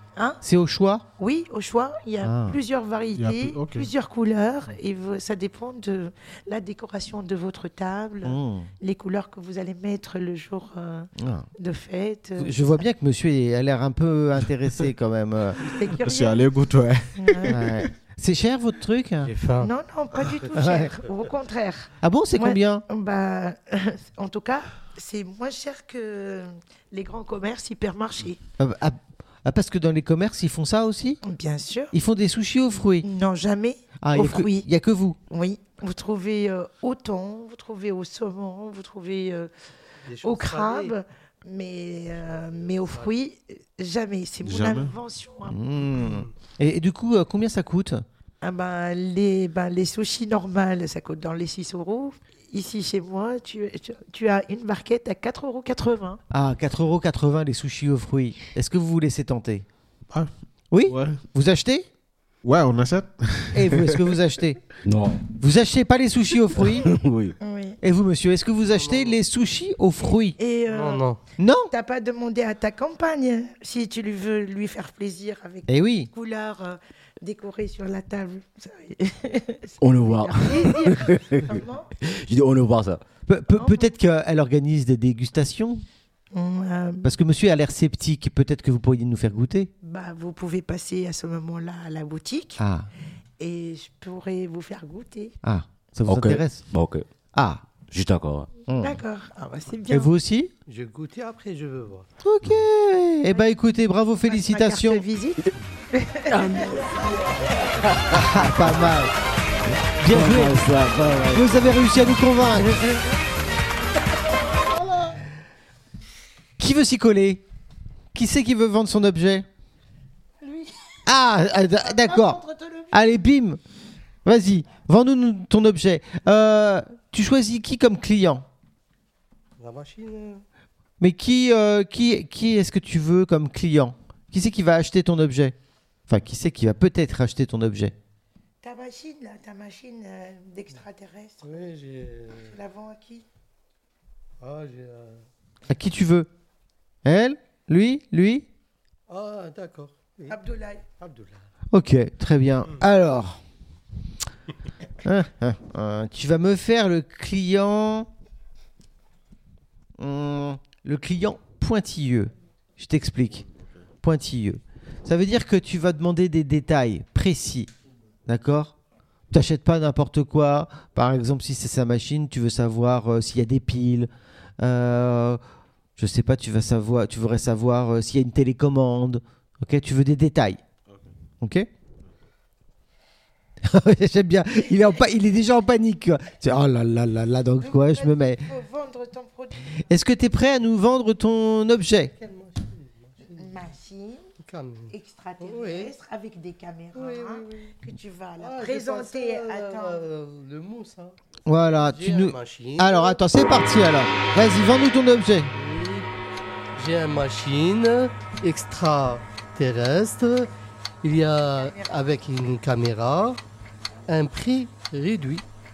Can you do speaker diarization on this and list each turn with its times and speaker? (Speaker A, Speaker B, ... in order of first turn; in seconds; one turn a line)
Speaker A: 0.1-0.4
Speaker B: 0.4-1.1
Speaker A: 1.2-12.6
Speaker B: 2.2-2.6
Speaker C: 3.1-3.9
Speaker B: 8.2-8.7
Speaker B: 11.2-11.5
Speaker B: 12.4-15.6
Speaker A: 15.6-16.4
Speaker C: 15.9-17.9
Speaker A: 17.1-17.6
Speaker B: 17.5-19.3
Speaker D: 19.2-19.7
Speaker A: 19.6-28.4
Speaker B: 20.5-20.9
Speaker B: 22.0-22.8
Speaker B: 28.6-31.2
Speaker A: 31.2-31.9
Speaker B: 31.9-33.0
Speaker A: 33.0-34.7
Speaker B: 34.0-35.2
Speaker A: 35.3-39.5
Speaker D: 40.0-41.0
Speaker A: 40.2-45.6
Speaker C: 44.4-44.9
Speaker B: 45.5-48.0
Speaker A: 48.4-56.2
Speaker B: 56.3-59.6
Speaker B: 60.7-61.9
Speaker C: 60.9-61.2
Speaker C: 62.4-64.1
Speaker B: 63.5-64.6
Speaker E: 64.8-65.3
Speaker B: 65.3-66.9
Speaker E: 66.8-67.3
Speaker A: 67.4-67.8
Speaker B: 67.8-70.4
Speaker D: 68.7-69.2
Speaker A: 70.4-71.0
Speaker D: 70.7-71.2
Speaker B: 71.4-71.7
Speaker A: 71.7-81.9
Speaker B: 75.7-76.1
Speaker E: 79.8-83.0
Speaker B: 83.3-85.8
Speaker A: 83.5-83.9
Speaker A: 86.3-87.1
Speaker B: 87.0-89.7
Speaker A: 89.8-92.6
Speaker B: 92.6-92.9
Speaker A: 93.4-95.3
Speaker B: 95.4-96.6
Speaker E: 96.1-97.0
Speaker B: 97.3-97.6
Speaker E: 97.9-98.5
Speaker B: 98.7-99.0
Speaker A: 98.8-100.1
Speaker B: 99.9-100.5
Speaker D: 100.7-102.1
Speaker B: 102.2-105.0
Speaker A: 104.3-107.7
Speaker E: 106.3-108.7
Speaker B: 108.1-109.1
Speaker B: 110.0-110.7
Speaker E: 110.0-111.5
Speaker B: 111.3-112.9
Speaker B: 116.6-117.4
Speaker B: 118.1-119.5
Speaker A: 120.4-121.0
Speaker B: 121.0-122.4
Speaker A: 121.8-123.0
Speaker B: 122.9-123.6
Speaker B: 124.2-128.4
Speaker D: 129.6-130.4
Speaker B: 131.0-135.5
Speaker B: 136.1-137.9
Speaker A: 138.6-141.5
Speaker D: 141.4-142.5
Speaker A: 142.4-143.2
Speaker D: 144.4-145.2
Speaker B: 145.7-146.3
Speaker B: 147.0-148.4
Speaker D: 149.1-150.4
Speaker A: 150.3-150.8
Speaker D: 151.0-151.5
Speaker B: 151.7-153.4
Speaker B: 155.0-158.1
Speaker B: 160.0-163.4
Speaker B: 164.0-167.7
Speaker B: 168.2-168.7
Speaker B: 169.3-175.4
Speaker B: 176.0-180.6
Speaker B: 181.4-181.7
Speaker B: 183.6-188.4
Speaker A: 187.6-189.8
Speaker B: 189.8-192.1
Speaker D: 192.2-193.5
Speaker A: 193.3-194.2
Speaker D: 194.4-195.9
Speaker A: 194.9-200.1
Speaker D: 196.9-197.7
Speaker D: 198.4-201.2
Speaker B: 201.4-205.5
Speaker D: 201.9-203.2
Speaker D: 205.5-206.1
Speaker D: 206.8-210.5
Speaker D: 211.0-213.4
Speaker D: 214.1-215.4